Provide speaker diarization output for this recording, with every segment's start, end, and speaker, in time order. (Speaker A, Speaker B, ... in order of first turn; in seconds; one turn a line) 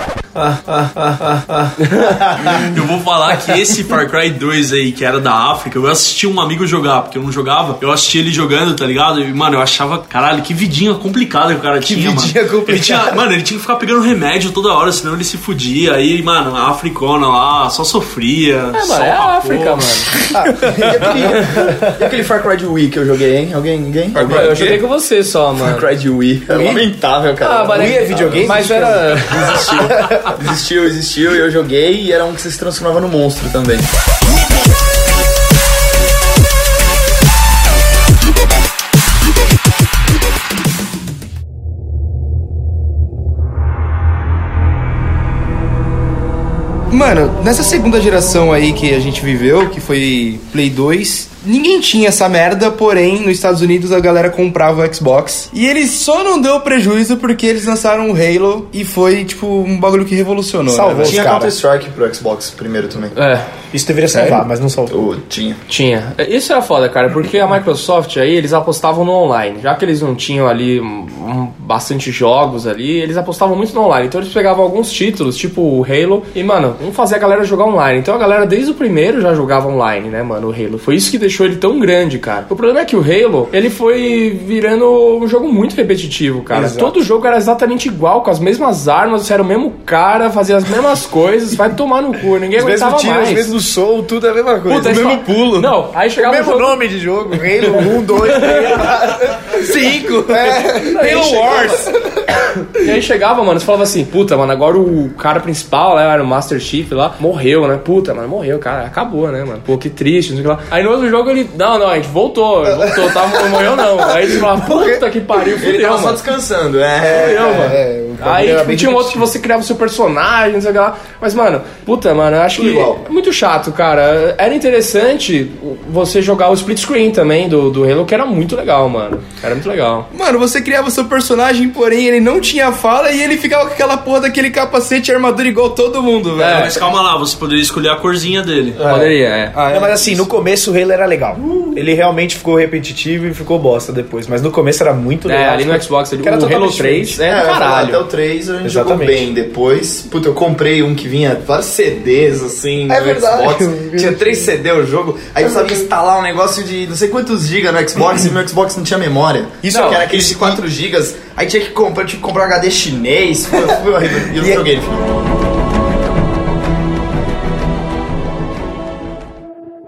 Speaker A: 1.8-2.3
Speaker B: 2.4-20.0
Speaker C: 11.8-13.2
Speaker A: 18.7-20.1
Speaker C: 20.3-22.1
Speaker D: 20.7-24.8
Speaker A: 24.1-25.9
Speaker D: 25.6-33.9
Speaker C: 26.5-26.9
Speaker A: 27.4-29.8
Speaker C: 27.7-30.4
Speaker E: 46.9-61.3
Speaker C: 60.7-61.5
Speaker D: 61.0-63.1
Speaker A: 63.1-63.5
Speaker C: 63.7-65.0
Speaker D: 64.9-65.6
Speaker A: 65.7-93.5
Speaker C: 86.5-87.0
Speaker C: 92.6-95.7
Speaker A: 94.7-96.8
Speaker E: 94.9-95.7
Speaker C: 96.2-99.7
Speaker A: 98.1-98.8
Speaker E: 99.5-101.9
Speaker C: 100.3-102.0
Speaker A: 100.9-101.7
Speaker A: 102.7-116.2
Speaker D: 115.6-117.7
Speaker A: 117.0-130.1
Speaker C: 117.1-119.3
Speaker D: 122.5-123.0
Speaker E: 130.1-136.7
Speaker A: 136.4-136.7
Speaker B: 136.4-138.8
Speaker C: 138.8-139.2
Speaker A: 138.8-139.6
Speaker E: 139.5-140.2
Speaker C: 139.7-147.2
Speaker A: 145.3-148.0
Speaker D: 147.2-165.1
Speaker C: 148.6-149.3
Speaker C: 152.9-154.5
Speaker C: 155.4-155.8
Speaker C: 159.6-160.6
Speaker A: 159.7-160.0
Speaker C: 164.3-164.7